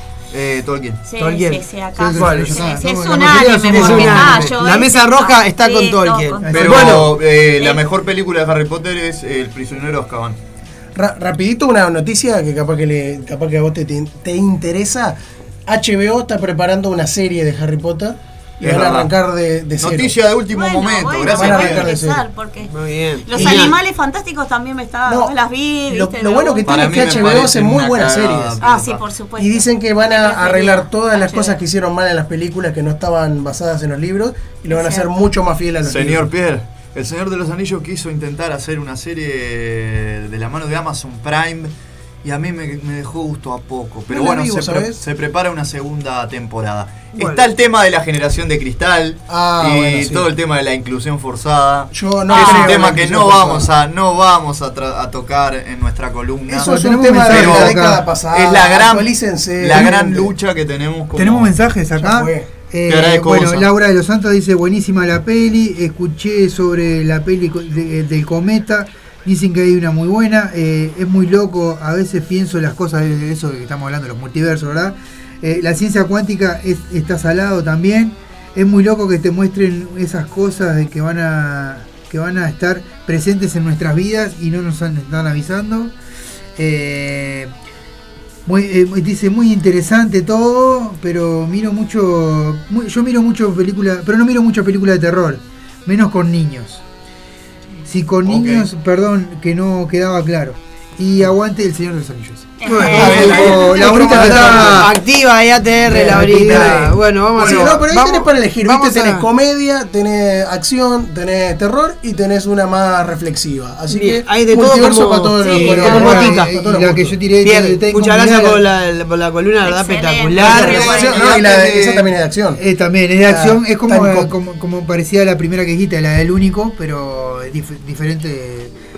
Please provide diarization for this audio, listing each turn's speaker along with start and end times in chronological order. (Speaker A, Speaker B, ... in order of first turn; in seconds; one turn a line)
Speaker A: 0.3-1.0
Speaker B: 1.0-7.8
Speaker C: 1.2-1.6
Speaker D: 1.9-4.5
Speaker C: 2.1-2.7
Speaker C: 3.7-7.2
Speaker D: 6.4-6.9
Speaker A: 6.5-10.4
Speaker E: 10.9-20.1
Speaker A: 18.6-19.1
Speaker A: 19.8-21.9
Speaker B: 20.5-27.5
Speaker E: 21.3-22.2
Speaker C: 22.7-23.8
Speaker E: 23.4-23.7
Speaker E: 25.1-25.3
Speaker E: 25.9-28.6
Speaker A: 26.6-29.0
Speaker B: 28.6-31.6
Speaker E: 29.4-36.3
Speaker B: 34.7-35.1
Speaker A: 35.8-41.7
Speaker A: 42.2-57.8
Speaker E: 44.1-45.0
Speaker C: 47.1-47.4
Speaker E: 49.3-50.3
Speaker E: 51.9-53.7
Speaker B: 52.3-52.8
Speaker E: 56.5-60.3
Speaker D: 56.6-58.0
Speaker A: 58.3-61.5
Speaker D: 59.7-60.0
Speaker D: 61.1-85.9
Speaker E: 62.0-62.5
Speaker A: 62.9-63.7
Speaker D: 86.5-87.5
Speaker D: 88.5-96.8
Speaker D: 97.8-104.9
Speaker A: 98.2-98.7
Speaker B: 102.6-104.2
Speaker C: 102.7-109.2
Speaker E: 102.9-104.9
Speaker E: 105.9-117.2
Speaker D: 105.9-107.8
Speaker C: 113.9-116.5
Speaker B: 115.4-116.2
Speaker D: 115.6-118.6
Speaker C: 117.4-120.9
Speaker B: 119.6-121.4
Speaker A: 120.4-122.1
Speaker E: 120.4-122.6
Speaker D: 122.6-128.7
Speaker E: 123.2-124.3